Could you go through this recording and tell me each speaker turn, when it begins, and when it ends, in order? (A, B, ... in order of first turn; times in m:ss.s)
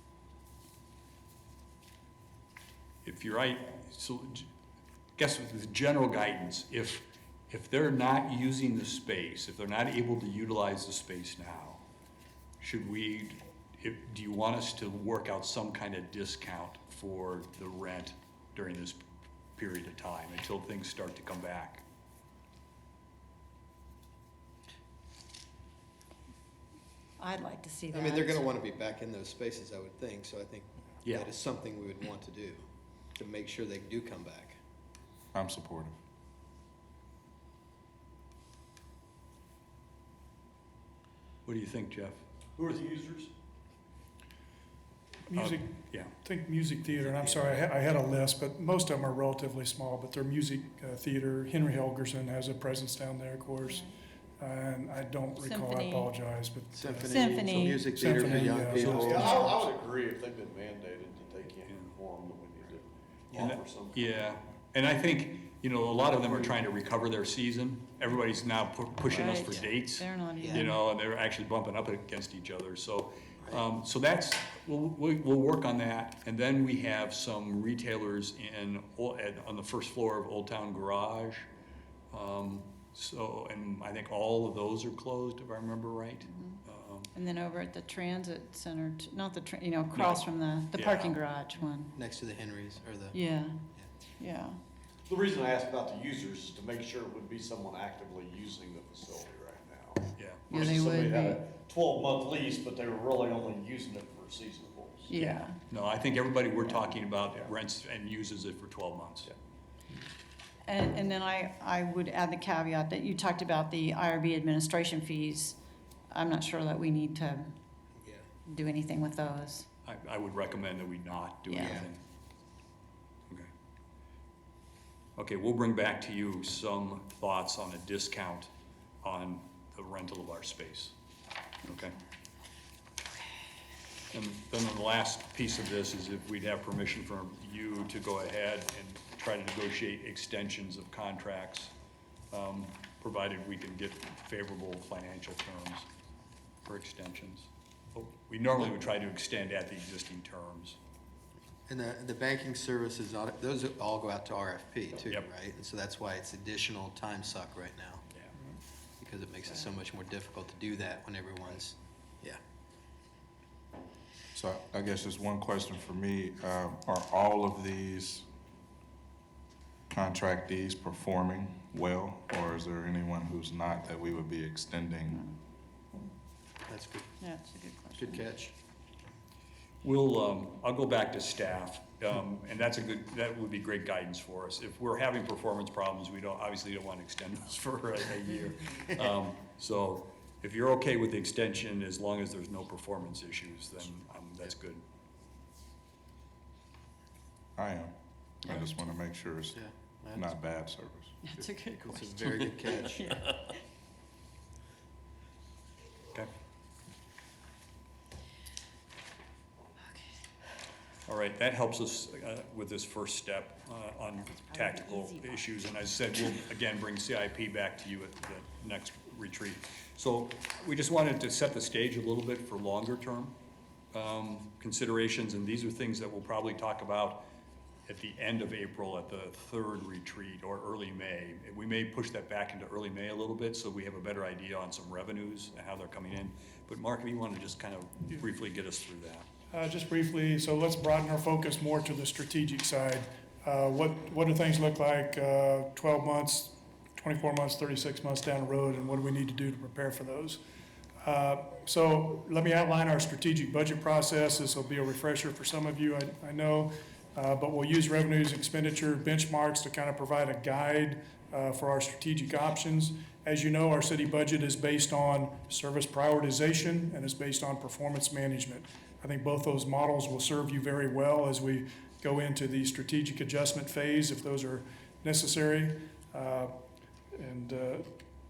0:03.0-0:04.5 A
0:05.2-0:11.8 A
0:12.6-0:19.0 A
0:19.6-0:21.8 A
0:27.2-0:28.5 B
0:27.9-0:32.6 C
0:31.0-0:31.3 A
0:33.2-0:34.6 C
0:35.3-0:36.0 D
0:41.4-0:42.2 A
0:42.6-0:43.3 E
0:45.3-0:53.9 F
0:45.3-0:46.1 A
0:47.1-0:47.4 C
0:53.6-0:53.9 B
0:54.4-0:59.5 F
0:55.4-0:56.1 B
0:56.7-0:59.6 C
0:57.1-0:57.9 B
0:58.2-1:04.2 E
0:59.2-0:59.5 B
1:01.7-1:01.9 A
1:03.4-1:21.5 A
1:09.1-1:10.8 B
1:22.1-1:27.1 A
1:26.3-1:26.6 B
1:27.2-1:32.0 B
1:30.0-1:31.2 A
1:32.0-1:33.2 C
1:33.1-1:33.6 B
1:34.2-1:34.6 B
1:35.1-1:45.1 E
1:40.2-1:40.7 A
1:40.5-1:41.5 B
1:45.1-1:45.6 B
1:45.2-1:49.3 A
1:50.7-1:55.6 B
1:56.1-1:57.5 B
1:58.5-1:59.7 B
1:59.8-2:02.0 A
2:01.5-2:01.9 B
2:01.6-2:01.9 C
2:05.2-2:08.5 A
2:09.0-2:10.9 A
2:11.7-2:12.0 A
2:14.1-2:21.7 A
2:22.3-2:25.9 A
2:26.6-2:30.8 A
2:31.7-2:38.0 C
2:39.0-2:42.4 C
2:44.3-2:48.3 D
2:49.9-2:55.2 D
2:56.7-2:57.1 C
2:57.2-2:58.2 B
2:58.0-2:58.5 C
2:59.8-3:14.8 A
3:17.6-3:21.2 D
3:19.6-3:20.2 C
3:21.2-3:23.5 B
3:21.8-3:23.2 C
3:31.1-3:43.4 A
3:34.5-3:35.4 B
3:43.9-3:47.3 A
3:47.9-3:59.3 A
3:59.5-4:10.4 F
4:11.0-4:36.5 F
4:37.1-4:37.9 F